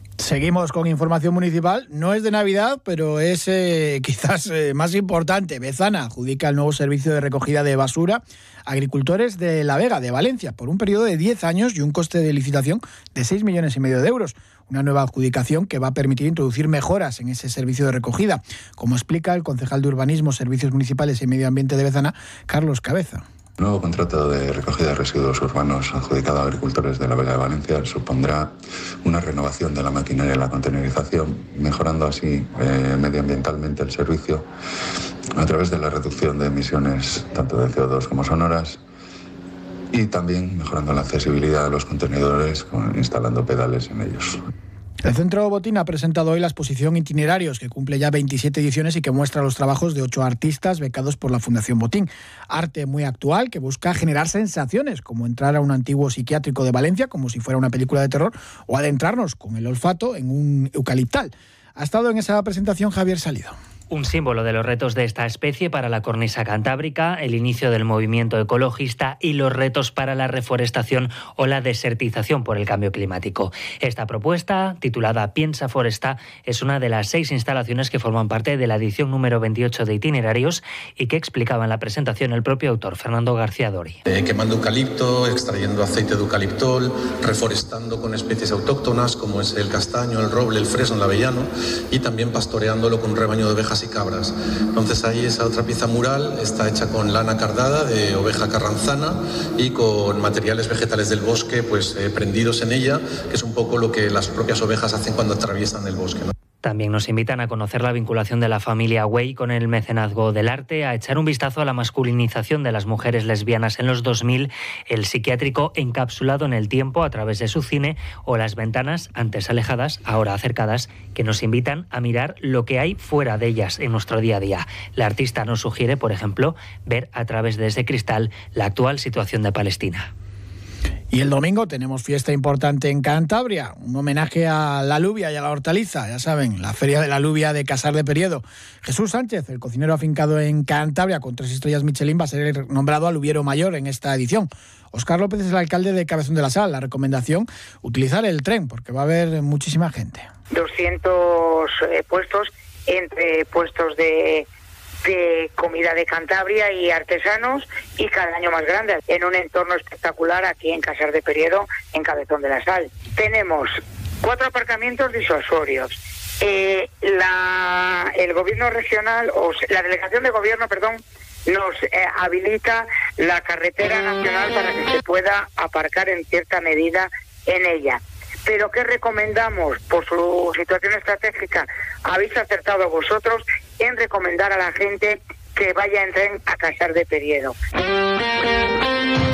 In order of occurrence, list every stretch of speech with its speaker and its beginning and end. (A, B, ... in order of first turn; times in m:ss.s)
0:00.2-0:23.2 A
0:23.6-0:28.5 B
0:29.0-0:34.4 B
0:35.4-0:38.8 B
0:39.9-0:44.4 B
0:45.0-1:03.5 A
1:03.9-1:24.0 C
1:24.1-1:46.3 D
1:46.6-2:10.1 C
2:11.1-2:30.2 A
2:30.5-2:34.5 E
2:35.0-2:43.7 E
2:44.2-3:07.5 E